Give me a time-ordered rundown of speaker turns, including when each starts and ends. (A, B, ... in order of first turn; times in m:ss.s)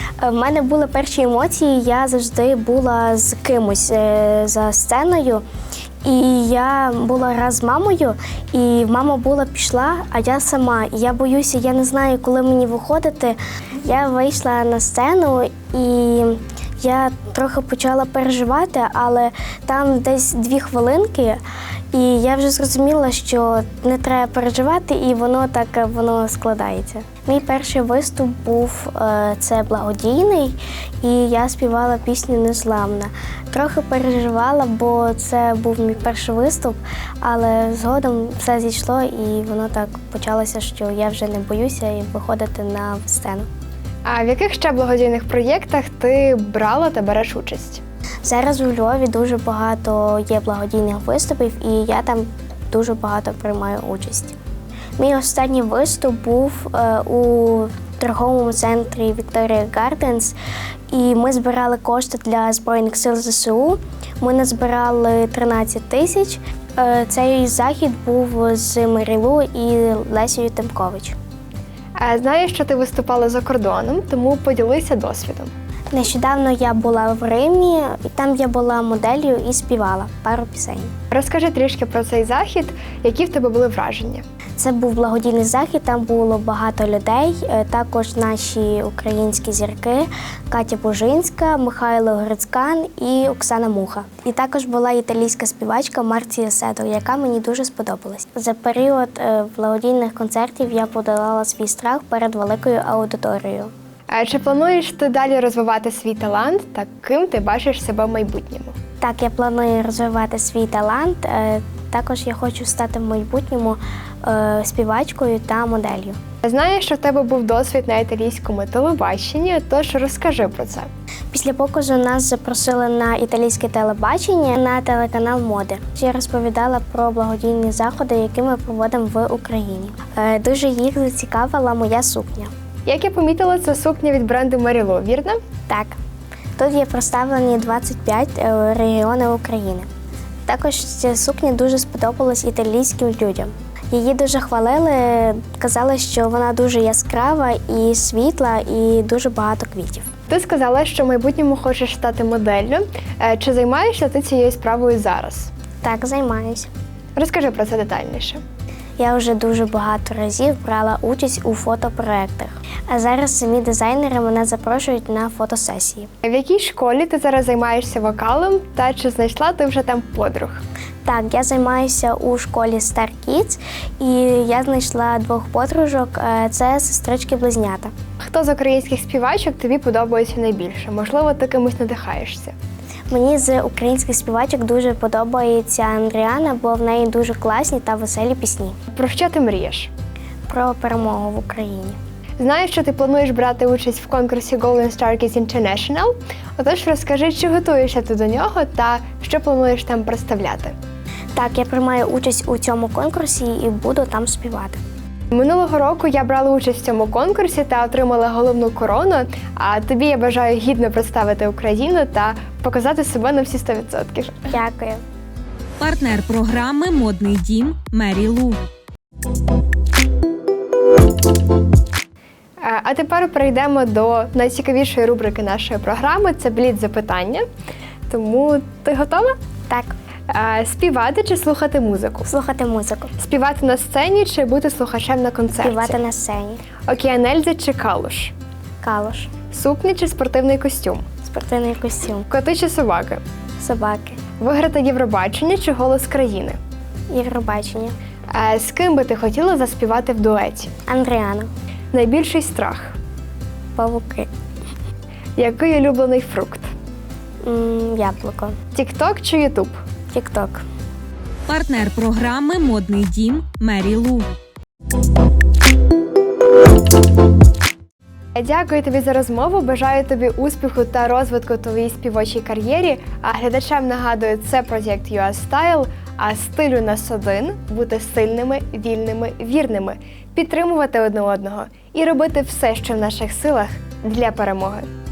0:00.2-0:05.4 A
0:06.0-0:21.4 A
0:21.9-0:43.5 A
0:44.0-0:47.8 B
0:48.2-0:54.4 A
0:55.0-1:00.4 A
1:00.9-1:11.2 A
1:12.0-1:15.5 B
1:15.9-1:20.9 A
1:21.1-1:24.2 B
1:24.6-1:43.7 A
1:44.1-1:48.8 B
1:49.0-1:56.2 A
1:56.4-2:00.9 B
2:01.3-2:12.5 A
2:12.9-2:15.4 B
2:15.7-2:16.0 A
2:16.6-2:19.9 A
2:20.5-2:30.1 A
2:30.3-2:35.5 B
2:35.8-2:36.7 A
2:37.2-2:38.4 B
2:39.0-2:46.1 A
2:46.2-2:50.6 B
2:51.0-2:57.9 A
2:58.2-3:02.6 B
3:03.1-3:08.8 A
3:08.9-3:09.9 B
3:10.5-3:12.0 A
3:12.4-3:20.8 B
3:21.4-3:24.8 A
3:25.3-3:34.5 B
3:34.5-3:35.0 A
3:35.8-3:38.6 C
3:42.6-3:47.5 B
3:48.1-3:49.4 B
3:49.7-3:50.0 A
3:50.3-3:52.3 B
3:52.3-3:53.1 A
3:53.2-3:56.0 B
3:55.6-3:56.6 A
3:56.9-3:58.3 B
3:58.8-3:59.3 A
3:59.5-4:01.1 B
4:01.2-4:02.3 A
4:02.3-4:03.2 B
4:03.6-4:04.2 A
4:04.4-4:06.6 B
4:07.1-4:08.0 A
4:08.3-4:10.7 B
4:10.9-4:11.5 A
4:11.9-4:13.0 B
4:13.8-4:14.3 A
4:15.4-4:16.7 B
4:17.4-4:18.6 A
4:18.7-4:19.8 B
4:20.1-4:20.6 A
4:21.5-4:24.3 C
4:28.4-4:44.9 B